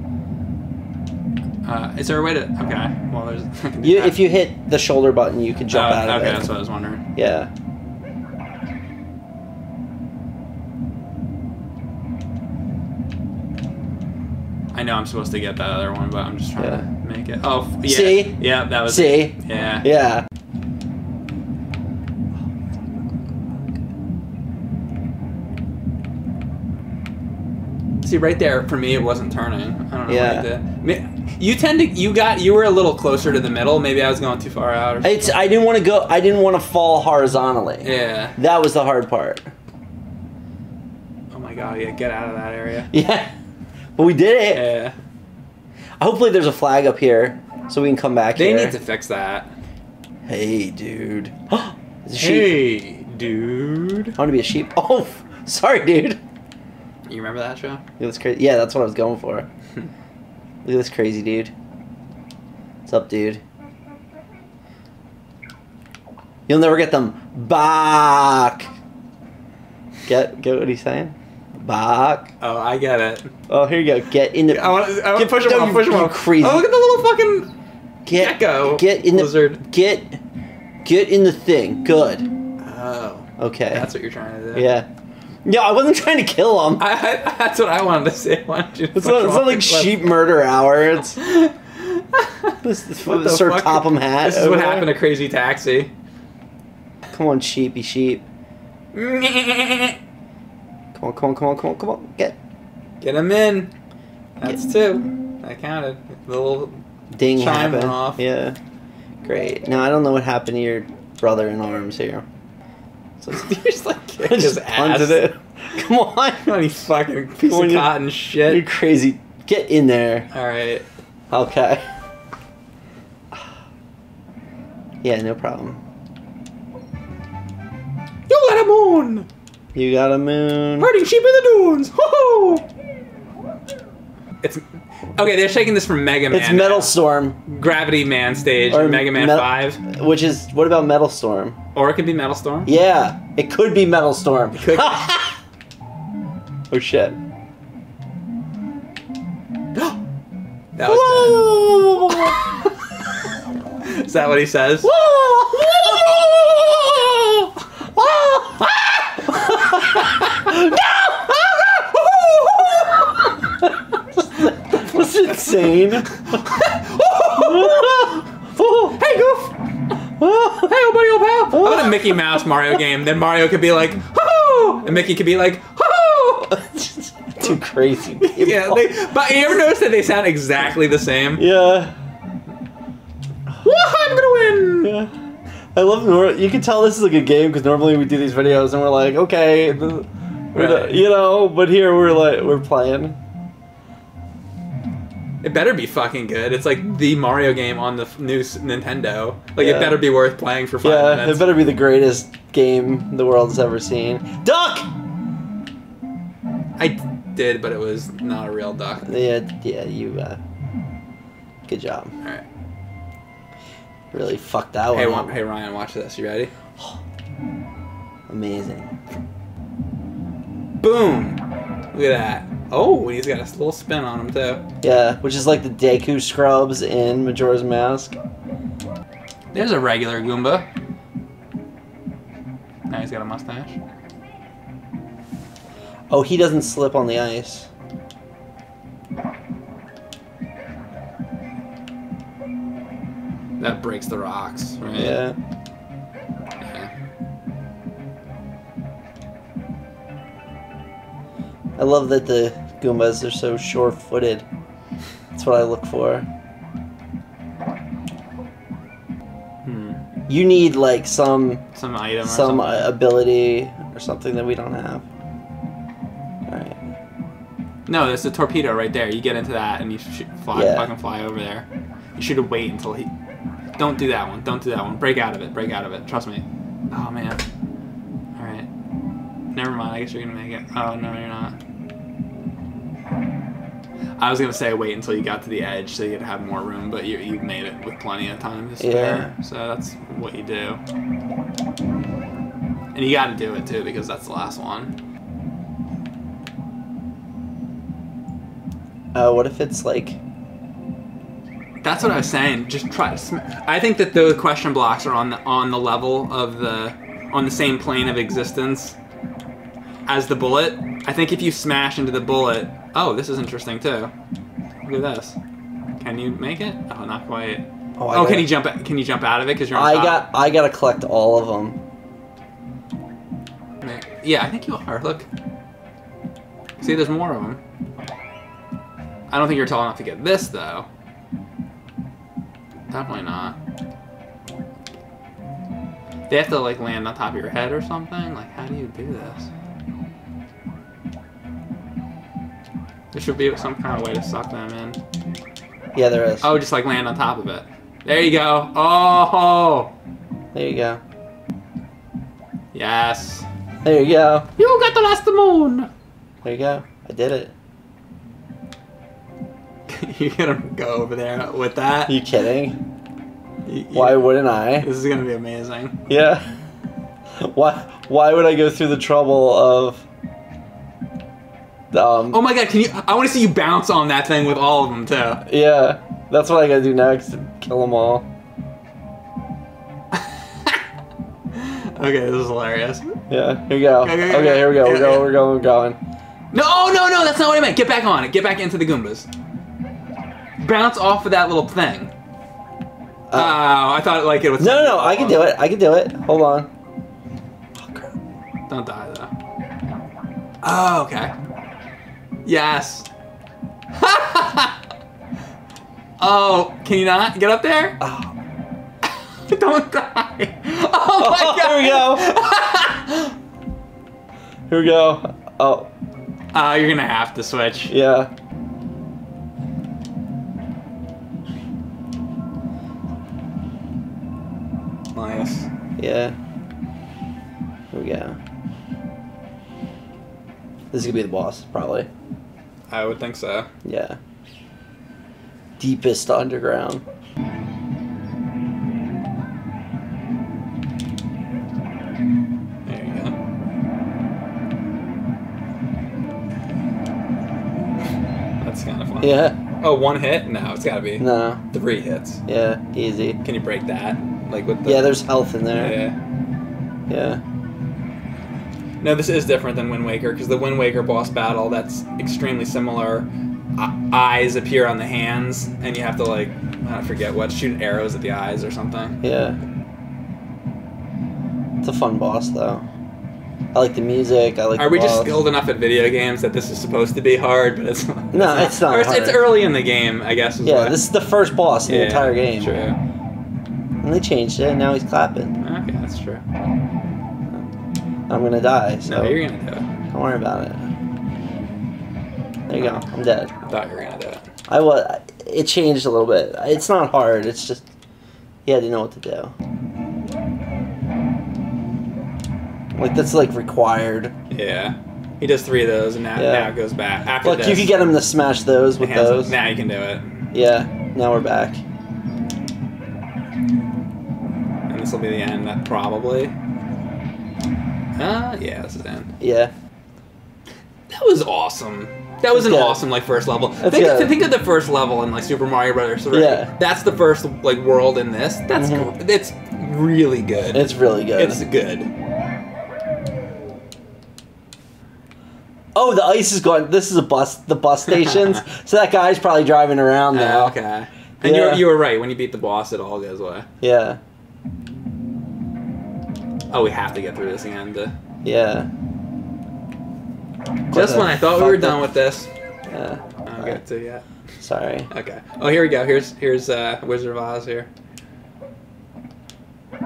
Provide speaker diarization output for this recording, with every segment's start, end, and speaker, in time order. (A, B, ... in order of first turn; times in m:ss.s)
0:01.6-0:04.2 A
0:03.8-0:06.5 B
0:05.7-0:07.0 A
0:07.1-0:07.5 B
0:14.7-0:19.9 A
0:16.6-0:16.8 B
0:17.8-0:20.2 B
0:22.9-0:23.7 B
0:28.0-0:35.3 A
0:30.1-0:30.4 B
0:35.0-0:39.5 B
0:37.8-0:38.3 A
0:41.3-0:42.9 A
0:42.9-0:43.3 B
0:44.0-0:44.7 B
0:44.5-0:44.9 A
0:46.0-0:48.8 B
0:48.4-0:49.5 A
0:50.3-0:52.6 B
0:52.2-0:54.2 A
0:54.2-0:56.2 B
0:57.1-0:57.8 A
0:58.0-0:59.5 B
1:00.6-1:01.5 B
1:02.8-1:03.4 B
1:06.5-1:08.7 B
1:10.0-1:12.3 B
1:12.4-1:13.3 A
1:13.5-1:16.7 B
1:14.5-1:17.5 A
1:18.0-1:20.2 B
1:18.1-1:19.6 A
1:20.8-1:22.3 B
1:22.6-1:24.7 A
1:23.4-1:23.9 B
1:24.5-1:24.9 B
1:25.4-1:26.8 B
1:26.8-1:30.0 A
1:28.9-1:31.2 B
1:31.0-1:35.9 A
1:32.6-1:34.9 B
1:37.1-1:38.2 B
1:38.9-1:40.0 A
1:40.9-1:42.4 B
1:43.0-1:43.7 A
1:44.4-1:46.8 A
1:47.1-1:48.6 B
1:47.3-1:48.2 A
1:49.2-1:52.2 B
1:53.3-1:55.2 A
1:54.2-1:56.4 B
1:56.4-1:58.6 A
1:57.4-2:00.3 B
2:00.3-2:00.8 A
2:01.3-2:01.9 B
2:05.0-2:05.8 B
2:08.3-2:09.3 A
2:09.7-2:10.9 B
2:10.8-2:12.6 A
2:14.4-2:16.9 A
2:16.3-2:17.4 B
2:17.4-2:19.8 A
2:18.7-2:21.6 B
2:21.7-2:22.7 A
2:22.6-2:25.4 B
2:24.5-2:25.2 A
2:26.7-2:27.2 B
2:30.7-2:31.6 A
2:30.8-2:32.4 B
2:33.8-2:34.9 A
2:34.8-2:38.6 B
2:35.8-2:36.4 A
2:38.3-2:40.4 A
2:39.2-2:41.4 B
2:41.3-2:43.3 A
2:42.6-2:42.8 B
2:43.4-2:46.1 B
2:45.3-2:48.2 A
2:47.3-2:49.0 B
2:49.0-2:49.5 A
2:50.2-2:50.7 B
2:50.6-2:56.6 A
2:51.5-2:52.2 B
2:56.4-2:59.4 B
2:58.2-3:01.4 A
3:01.4-3:01.9 B
3:03.6-3:05.0 A
3:04.8-3:05.1 B
3:05.7-3:13.2 B
3:10.5-3:11.0 A
3:15.4-3:21.5 A
3:19.6-3:20.0 B
3:20.8-3:24.9 B
3:26.8-3:29.1 A
3:29.0-3:30.4 B
3:31.7-3:32.1 B
3:34.1-3:35.3 B
3:34.9-3:36.5 A
3:38.3-3:38.9 B
3:40.8-3:41.4 A
3:41.9-3:44.6 A
3:44.8-3:48.1 B
3:49.5-3:50.6 A
3:52.9-3:53.8 A
3:56.1-3:57.7 B
4:03.6-4:05.2 A
4:04.9-4:05.4 B
4:06.6-4:06.9 A
4:11.8-4:14.4 B
4:15.3-4:16.3 B
4:19.6-4:20.0 A
4:20.3-4:21.6 B
4:21.7-4:22.9 A
4:22.2-4:25.0 B
4:26.4-4:26.8 B
4:27.9-4:31.6 A
4:30.5-4:30.9 B
4:32.2-4:33.1 A
4:33.8-4:37.4 A
4:38.4-4:38.7 A
4:39.5-4:41.6 A
4:44.2-4:50.8 A
4:48.8-4:49.3 B
4:52.9-4:54.9 A
4:59.1-5:00.2 B
5:01.8-5:09.0 A
5:10.1-5:14.1 A
5:14.8-5:15.4 A
5:16.0-5:20.2 A
5:18.0-5:18.5 B
5:19.7-5:21.8 B
5:23.8-5:25.2 A
5:26.8-5:27.6 A
5:29.3-5:30.8 A
5:32.9-5:33.6 A
5:36.3-5:39.5 A
5:43.1-5:45.0 A
5:45.9-5:46.5 B
5:46.4-5:49.9 A
5:50.5-5:51.0 B
5:52.7-5:53.5 A
5:53.8-5:54.5 B
5:54.6-5:55.9 A
5:56.4-5:57.5 B
5:59.9-6:02.2 A
6:02.1-6:02.8 B
6:03.6-6:06.0 A
6:03.9-6:04.9 B
6:06.1-6:06.4 B
6:07.4-6:10.0 B
6:11.9-6:12.4 B
6:12.3-6:15.4 A
6:15.4-6:18.3 B
6:20.1-6:20.8 A
6:21.5-6:23.2 A
6:23.3-6:26.0 B
6:24.0-6:25.3 A
6:26.5-6:29.3 A
6:30.6-6:32.1 A
6:33.3-6:33.6 B
6:33.3-6:35.5 A
6:34.6-6:36.7 B
6:37.8-6:38.1 B
6:38.7-6:39.3 A
6:40.6-6:41.3 A
6:42.4-6:43.1 A
6:43.9-6:44.7 A
6:46.2-6:48.0 A
6:48.0-6:48.3 B
6:49.5-6:53.3 A
6:51.2-6:52.3 B
6:54.7-6:55.9 B
6:56.5-6:57.9 A
6:57.9-6:58.3 B
7:05.1-7:05.7 A
7:06.0-7:06.3 B
7:07.9-7:08.4 B
7:10.9-7:12.1 B
7:12.9-7:13.7 A
7:13.8-7:14.2 B
7:15.8-7:17.0 B
7:22.8-7:23.3 A
7:28.6-7:32.4 A
7:29.2-7:29.6 B
7:31.2-7:31.6 B
7:32.4-7:33.4 B
7:33.4-7:35.1 A
7:34.8-7:36.0 B
7:35.7-7:36.2 A
7:37.1-7:37.4 B
7:39.0-7:49.2 A
7:49.2-7:49.6 B
7:51.8-7:52.8 B
7:53.7-7:55.4 B
7:54.8-8:01.0 A
7:58.3-7:59.5 B
8:00.6-8:02.8 B
8:01.9-8:03.0 A
8:04.0-8:05.6 B
8:05.6-8:06.4 A
8:08.3-8:09.4 B
8:09.0-8:09.8 A
8:10.1-8:10.9 B
8:12.7-8:13.5 B
8:13.6-8:14.4 A
8:14.7-8:17.8 B
8:18.6-8:19.5 B
8:22.9-8:24.3 B
8:24.5-8:28.0 A
8:26.4-8:26.7 B
8:27.4-8:29.6 B
8:29.0-8:30.5 A
8:30.5-8:31.8 B
8:34.9-8:36.5 A
8:38.2-8:39.3 A
8:39.4-8:39.7 B
8:41.1-8:52.1 A
8:42.5-8:43.0 B
8:43.8-8:44.3 B
8:46.3-8:46.7 B
8:48.7-8:49.1 B
8:50.7-8:51.6 B
8:55.9-9:00.8 B
9:00.3-9:03.7 A
9:01.4-9:01.9 B
9:03.8-9:04.2 B
9:06.7-9:08.1 A
9:08.4-9:08.9 B
9:10.9-9:12.0 B
9:10.9-9:12.5 A
9:12.9-9:13.8 B
9:13.4-9:14.2 A
9:14.6-9:15.1 B
9:15.1-9:17.9 A